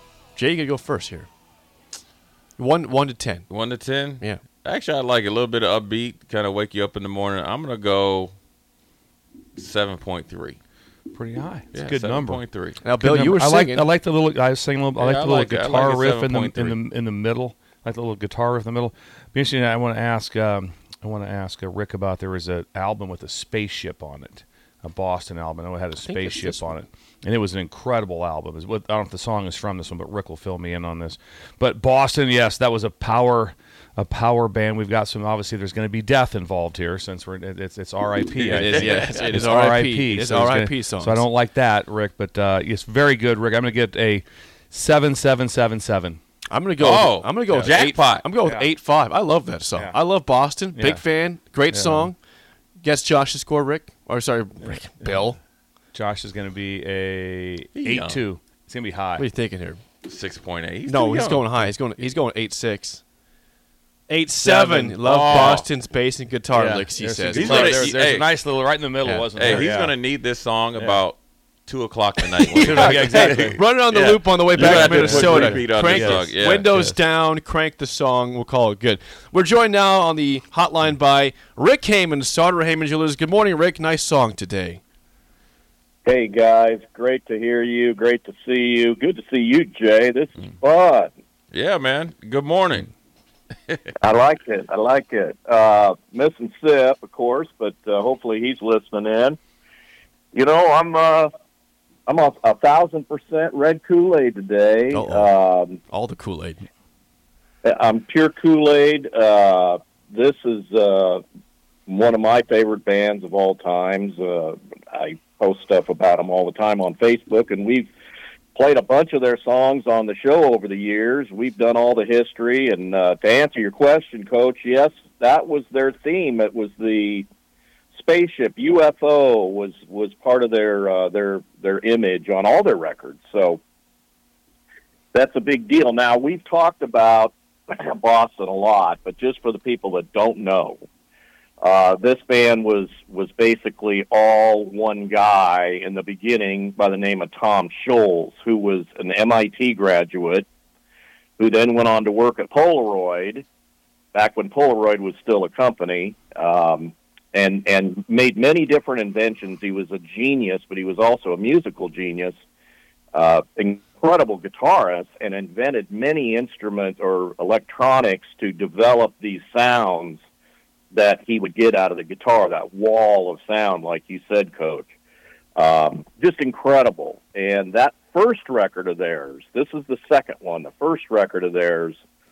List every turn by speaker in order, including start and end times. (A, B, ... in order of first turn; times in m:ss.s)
0:00.4-0:01.3 A
0:02.6-0:03.5 A
0:03.5-0:08.3 B
0:09.6-0:10.6 B
0:11.1-0:12.4 C
0:11.7-0:12.8 B
0:12.8-0:13.9 A
0:13.0-0:46.2 C
0:15.0-0:16.8 B
0:26.0-0:26.7 A
0:38.4-0:39.5 B
0:38.5-0:41.2 A
0:46.5-0:52.2 A
0:46.8-0:48.3 B
0:48.4-0:48.7 C
0:49.8-0:50.0 C
0:50.7-0:51.1 C
0:51.7-0:52.1 C
0:52.8-0:55.4 A
0:54.6-0:55.3 C
0:55.9-0:59.3 C
0:57.7-0:58.2 B
0:59.2-0:59.8 A
1:00.0-1:01.8 B
1:00.9-1:03.0 A
1:04.1-1:07.9 A
1:04.4-1:05.6 C
1:05.0-1:05.7 B
1:06.5-1:10.0 C
1:07.3-1:08.3 B
1:09.0-1:09.6 A
1:09.3-1:16.7 B
1:10.8-1:11.0 C
1:12.3-1:24.8 A
1:12.6-1:13.6 C
1:14.5-1:17.0 C
1:26.1-1:31.1 D
1:31.5-1:32.9 B
1:34.0-1:39.4 D
1:40.3-1:41.3 D
1:42.1-1:45.8 D
1:44.9-1:45.3 A
1:45.9-1:46.6 A
1:47.6-1:51.2 D
1:51.9-1:57.9 D
1:58.6-2:07.3 D
2:07.9-2:13.6 D
2:15.1-2:20.8 D
2:21.6-2:30.5 D
2:31.4-2:33.4 D
2:34.1-2:42.4 D
2:43.1-2:50.2 D
2:50.9-2:54.9 D
2:55.6-3:02.0 D